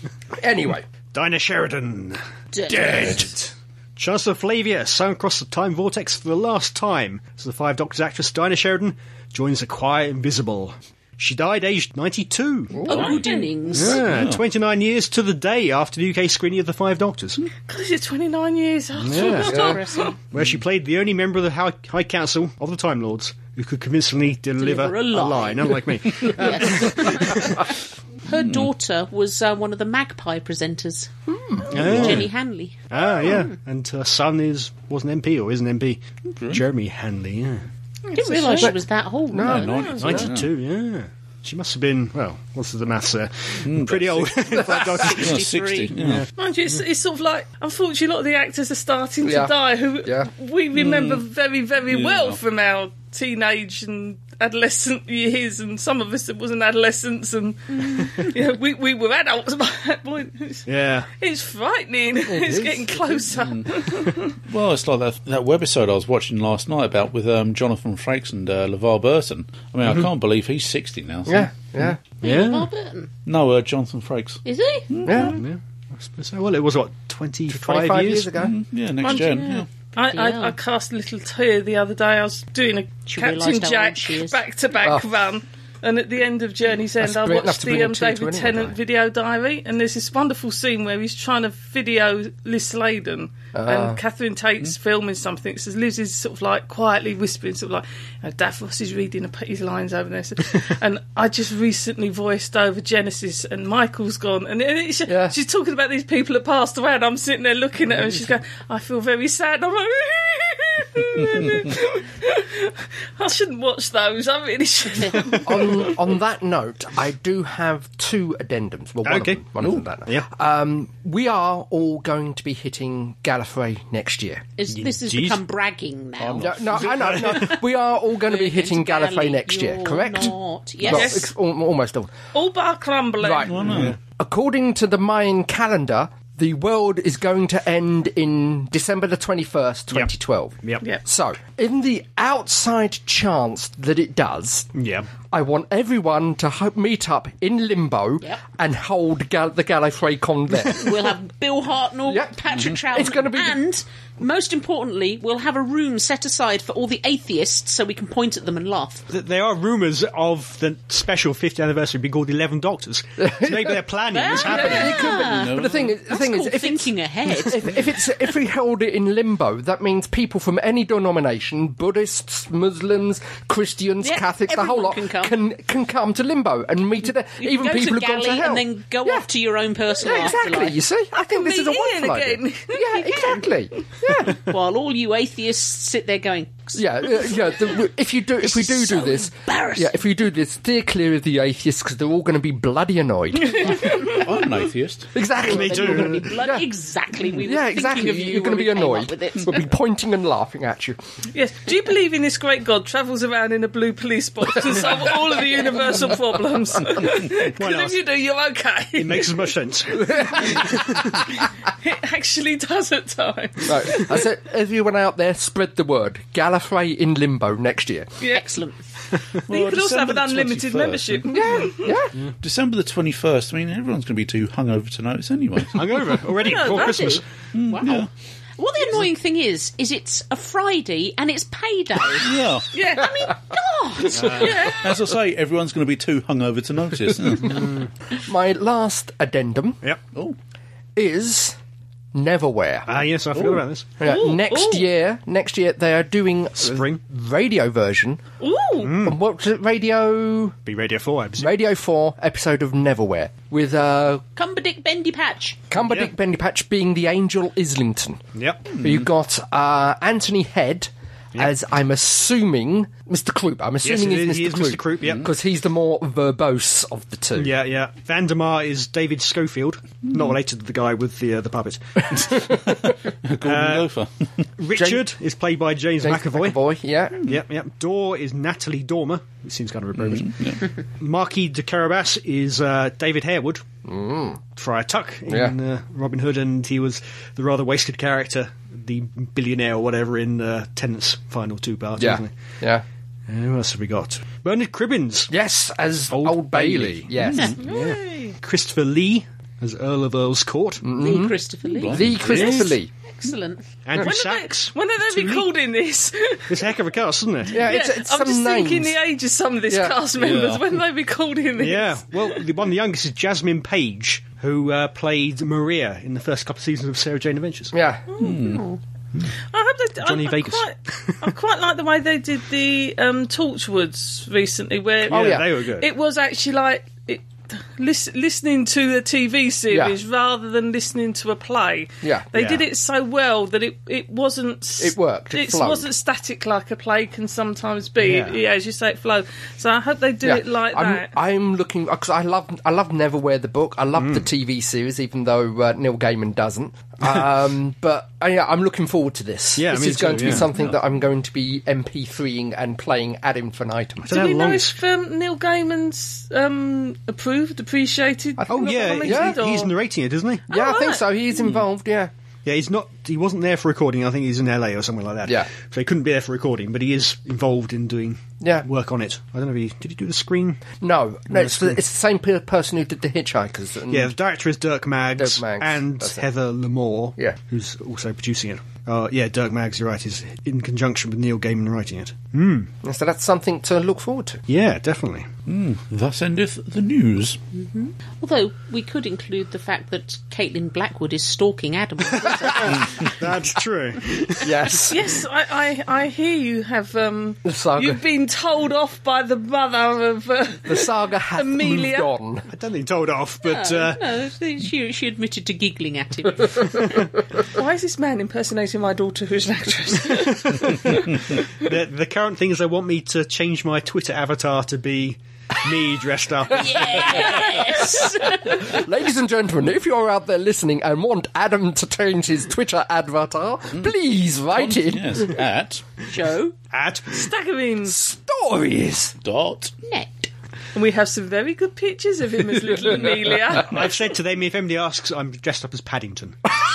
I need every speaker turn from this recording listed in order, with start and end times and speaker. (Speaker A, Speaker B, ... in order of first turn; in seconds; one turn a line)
Speaker A: 0.3-0.9
Speaker B: 1.1-12.8
Speaker C: 2.5-3.2
Speaker A: 2.7-3.3
Speaker A: 12.7-13.2
Speaker C: 12.9-14.0
Speaker D: 12.9-13.2
Speaker B: 13.7-17.5
Speaker D: 13.9-14.4
Speaker E: 17.6-20.1
Speaker B: 19.0-19.7
Speaker C: 19.2-20.1
Speaker B: 20.3-27.6
Speaker C: 24.6-27.7
Speaker C: 28.2-31.1
Speaker D: 28.4-28.7
Speaker A: 31.3-31.7
Speaker B: 31.7-32.3
Speaker C: 31.7-33.5
Speaker D: 31.9-32.2
Speaker B: 32.9-37.7
Speaker E: 38.1-38.7
Speaker C: 38.1-39.7
Speaker A: 39.3-40.3
Speaker D: 39.4-40.5
Speaker E: 39.7-40.2
Speaker B: 40.0-45.4
Speaker D: 43.6-46.2
Speaker A: 44.5-44.9
Speaker C: 44.9-45.9
Speaker B: 46.0-46.3
Speaker E: 46.4-60.6
Speaker A: 49.2-50.3
Speaker D: 50.7-51.2
Speaker D: 51.9-52.4
Speaker B: 60.7-61.1
Speaker E: 61.2-64.3
Speaker A: 62.3-63.2
Speaker D: 63.3-63.6
Speaker D: 64.5-71.9
Speaker A: 71.2-72.0
Speaker C: 72.2-73.1
Speaker B: 72.2-72.7
Speaker D: 73.2-75.3
Speaker C: 74.4-74.9
Speaker A: 75.0-75.4
Speaker B: 75.2-78.3
Speaker A: 77.5-78.5
Speaker D: 78.4-79.7
Speaker E: 79.0-115.9
Speaker C: 79.0-80.6
Speaker C: 83.1-84.4
Speaker A: 84.8-85.1
Speaker A: 87.0-88.8
Speaker A: 93.5-94.0
Speaker A: 105.1-105.4
Speaker A: 115.4-124.5
Speaker B: 119.0-119.4
Speaker C: 124.6-126.6
Speaker B: 124.7-125.4
Speaker D: 126.2-126.9
Speaker A: 126.4-132.1
Speaker B: 126.8-127.6
Speaker C: 128.2-131.3
Speaker E: 130.9-131.3
Speaker E: 132.3-133.7
Speaker A: 133.2-144.7
Speaker D: 133.4-133.9
Speaker B: 133.7-134.0
Speaker B: 144.7-145.1
Speaker A: 145.3-150.9
Speaker C: 150.8-159.0
Speaker A: 152.1-153.6
Speaker B: 159.1-165.1
Speaker A: 163.2-163.8
Speaker C: 164.1-167.7
Speaker A: 164.5-179.3
Speaker D: 165.2-165.9
Speaker C: 174.0-175.3
Speaker C: 177.4-180.8
Speaker A: 179.9-184.4
Speaker E: 181.1-183.4
Speaker C: 184.4-187.8
Speaker A: 186.7-193.9
Speaker C: 188.4-190.0
Speaker E: 193.5-194.2
Speaker D: 194.0-195.1
Speaker A: 195.1-196.7
Speaker B: 195.4-196.3
Speaker C: 195.4-199.6
Speaker A: 197.3-201.0
Speaker E: 201.3-209.5
Speaker B: 207.6-208.0
Speaker B: 208.9-211.0
Speaker A: 210.1-210.7
Speaker E: 210.5-214.2
Speaker A: 213.7-218.1
Speaker E: 218.2-218.6
Speaker C: 218.3-218.9
Speaker D: 219.5-221.6
Speaker E: 219.5-221.9
Speaker A: 221.3-222.1
Speaker D: 222.4-226.2
Speaker B: 225.7-227.2
Speaker E: 226.4-227.1
Speaker C: 226.5-232.3
Speaker D: 227.5-228.1
Speaker D: 232.2-232.7
Speaker E: 232.7-233.3
Speaker C: 233.0-234.4
Speaker B: 234.1-234.7
Speaker E: 234.4-234.9
Speaker D: 234.7-237.7
Speaker B: 237.4-237.9
Speaker A: 238.2-239.8
Speaker A: 240.9-241.6
Speaker A: 242.1-243.0
Speaker B: 242.9-244.0
Speaker A: 244.0-248.2
Speaker E: 244.0-244.9
Speaker B: 246.6-247.0
Speaker E: 248.4-249.0
Speaker B: 248.8-249.2
Speaker A: 248.9-250.6
Speaker B: 250.7-251.5
Speaker A: 251.4-254.2
Speaker C: 254.3-255.6
Speaker A: 255.7-258.2
Speaker B: 255.8-256.1
Speaker B: 258.3-258.7
Speaker D: 258.8-259.0
Speaker A: 258.8-267.5
Speaker B: 263.8-265.2
Speaker B: 267.4-272.5
Speaker D: 272.8-274.2
Speaker B: 273.4-273.9
Speaker B: 274.6-276.6
Speaker A: 274.7-275.0
Speaker A: 276.0-277.2
Speaker B: 277.2-283.6
Speaker D: 280.0-280.6
Speaker A: 283.8-284.4
Speaker B: 284.6-292.3
Speaker A: 285.3-285.5
Speaker A: 292.0-292.8
Speaker B: 293.3-295.3
Speaker A: 295.3-297.6
Speaker B: 296.1-300.8
Speaker E: 297.6-298.4
Speaker A: 300.8-302.9
Speaker C: 301.0-303.6
Speaker D: 301.6-302.3
Speaker B: 302.2-302.7
Speaker B: 303.8-305.5
Speaker E: 304.0-306.7
Speaker B: 306.5-307.6
Speaker A: 307.5-308.9
Speaker E: 307.6-312.4
Speaker A: 309.7-310.0
Speaker D: 310.2-310.6
Speaker B: 311.6-317.7
Speaker A: 317.7-318.0
Speaker E: 318.2-318.6
Speaker D: 318.2-318.6
Speaker C: 318.3-318.8
Speaker E: 319.5-341.1
Speaker B: 320.0-321.2
Speaker B: 325.1-325.9
Speaker A: 325.1-325.5
Speaker A: 329.7-330.0
Speaker A: 332.0-332.3
Speaker B: 332.3-332.6
Speaker A: 334.8-335.9
Speaker B: 338.0-338.4
Speaker A: 340.2-354.2
Speaker B: 344.0-344.2
Speaker B: 349.6-350.5
Speaker B: 354.0-354.8
Speaker E: 354.1-359.8
Speaker A: 358.4-359.4
Speaker B: 358.5-360.5
Speaker E: 360.5-361.0
Speaker A: 360.5-362.1
Speaker B: 362.4-370.7
Speaker A: 368.4-368.6
Speaker A: 370.8-374.1
Speaker B: 371.3-371.8
Speaker B: 373.9-382.7
Speaker A: 375.2-376.2
Speaker A: 382.8-384.4
Speaker B: 384.5-385.3
Speaker D: 385.5-387.4
Speaker C: 387.5-392.9
Speaker B: 392.2-394.5
Speaker A: 394.4-395.1
Speaker E: 394.9-402.1
Speaker A: 397.4-398.0
Speaker A: 400.7-402.5
Speaker B: 402.5-404.0
Speaker C: 403.4-406.9
Speaker E: 407.5-411.4
Speaker B: 410.4-410.9
Speaker B: 411.6-417.3
Speaker C: 416.5-418.6
Speaker A: 418.4-425.4
Speaker D: 424.5-425.8
Speaker C: 426.1-426.5
Speaker B: 426.7-427.3
Speaker E: 427.1-427.9
Speaker A: 427.8-429.1
Speaker D: 429.2-429.7
Speaker C: 429.8-430.3
Speaker E: 430.7-433.9
Speaker B: 433.6-436.4